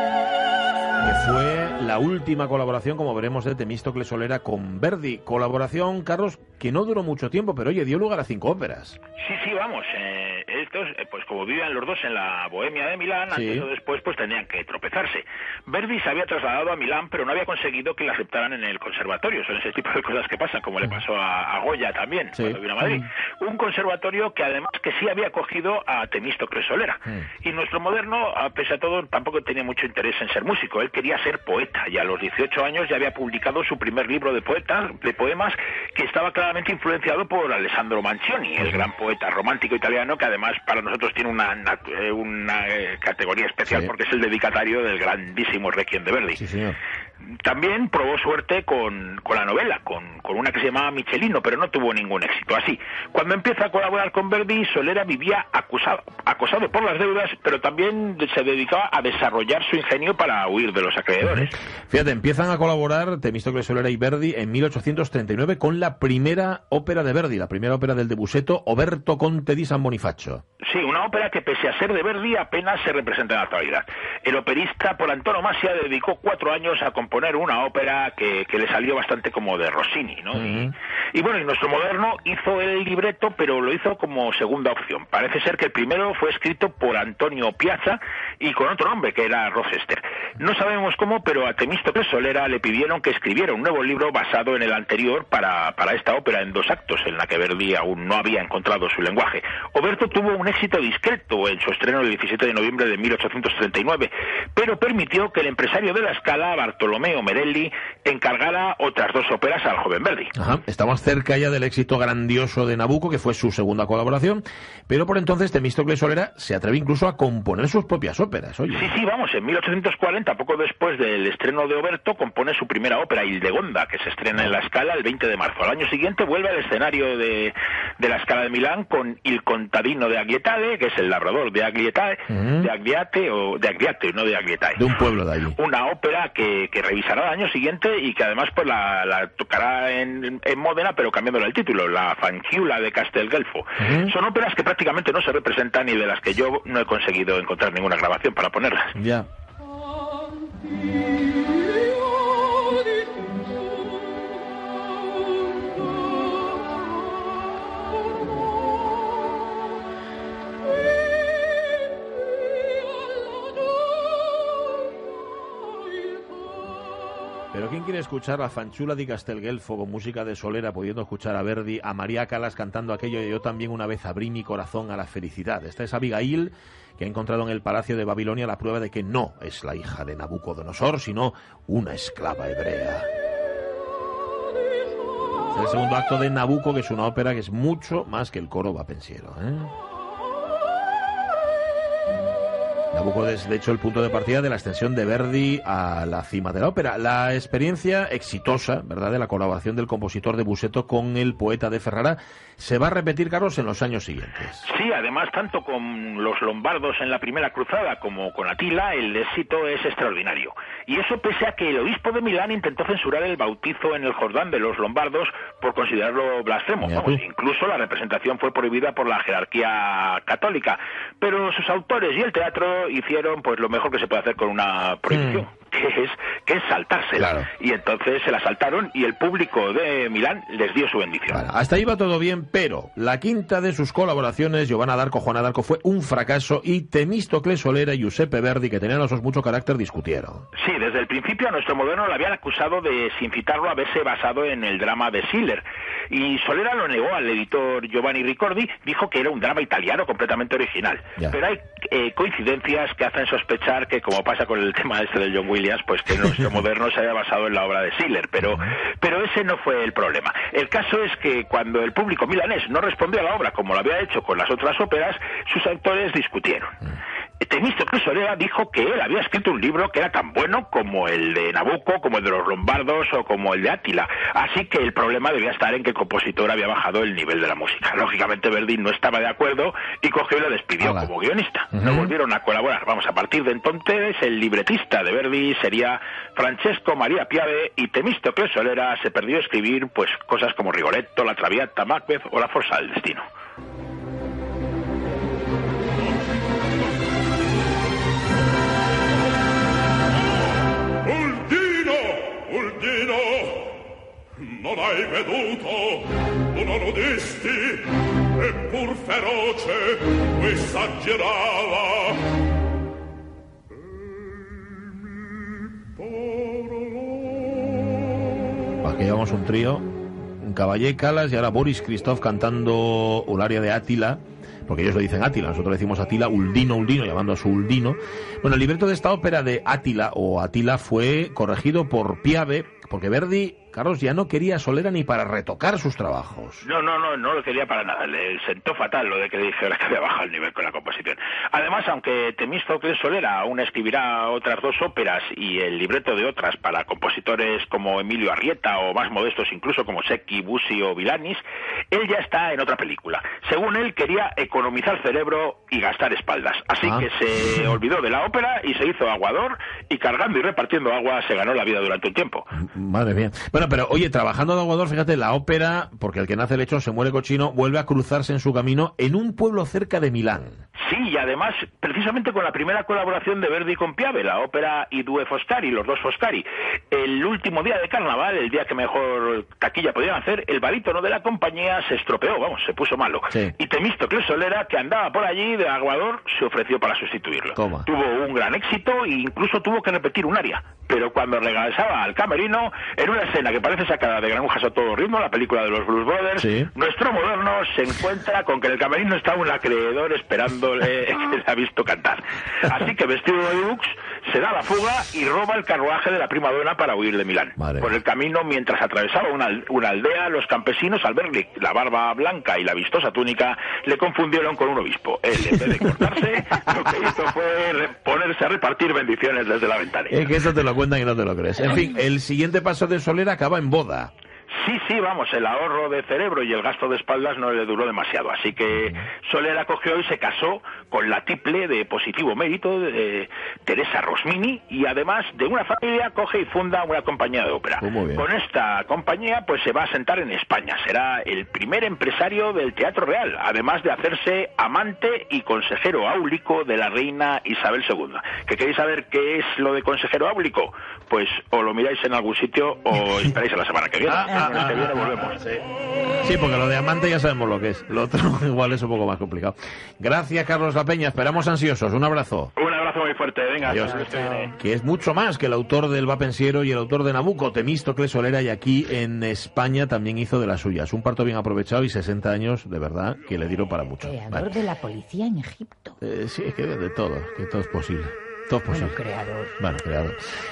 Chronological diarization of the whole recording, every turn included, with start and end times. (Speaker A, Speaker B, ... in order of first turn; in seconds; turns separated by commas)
Speaker A: 1.0-9.0, Speaker B: 9.2-46.4, Speaker A: 13.3-13.7, Speaker A: 22.3-22.6, Speaker A: 43.6-43.9, Speaker A: 46.3-46.8, Speaker B: 47.4-61.5, Speaker A: 61.3-70.4, Speaker B: 70.6-110.3, Speaker A: 80.3-80.7, Speaker A: 110.3-118.9, Speaker B: 118.7-135.0, Speaker A: 132.3-132.7, Speaker A: 134.8-135.6, Speaker B: 135.5-149.0, Speaker A: 143.8-144.1, Speaker A: 148.9-149.3, Speaker A: 167.5-183.1, Speaker A: 185.5-189.7, Speaker A: 192.9-204.7, Speaker B: 204.6-231.5, Speaker A: 216.8-217.2, Speaker A: 225.1-225.4, Speaker A: 227.2-227.5, Speaker A: 231.3-240.4, Speaker B: 240.5-266.8, Speaker A: 258.4-258.7, Speaker B: 267.4-293.2, Speaker A: 280.8-281.1, Speaker A: 281.7-282.1, Speaker C: 301.0-303.7, Speaker C: 304.4-312.2, Speaker C: 316.1-317.0, Speaker A: 318.8-319.9, Speaker A: 320.4-336.6, Speaker B: 336.6-362.6, Speaker A: 356.8-357.1, Speaker A: 362.6-370.6, Speaker B: 370.8-420.4, Speaker A: 387.5-387.9, Speaker A: 396.4-396.7, Speaker A: 407.6-407.9, Speaker A: 420.1-424.1, Speaker B: 424.6-455.4, Speaker A: 437.8-438.3, Speaker A: 454.0-455.6, Speaker A: 456.2-462.5, Speaker B: 462.6-464.6, Speaker A: 463.6-474.6, Speaker D: 474.1-475.9, Speaker A: 476.0-479.0, Speaker D: 478.8-479.5, Speaker A: 479.6-480.2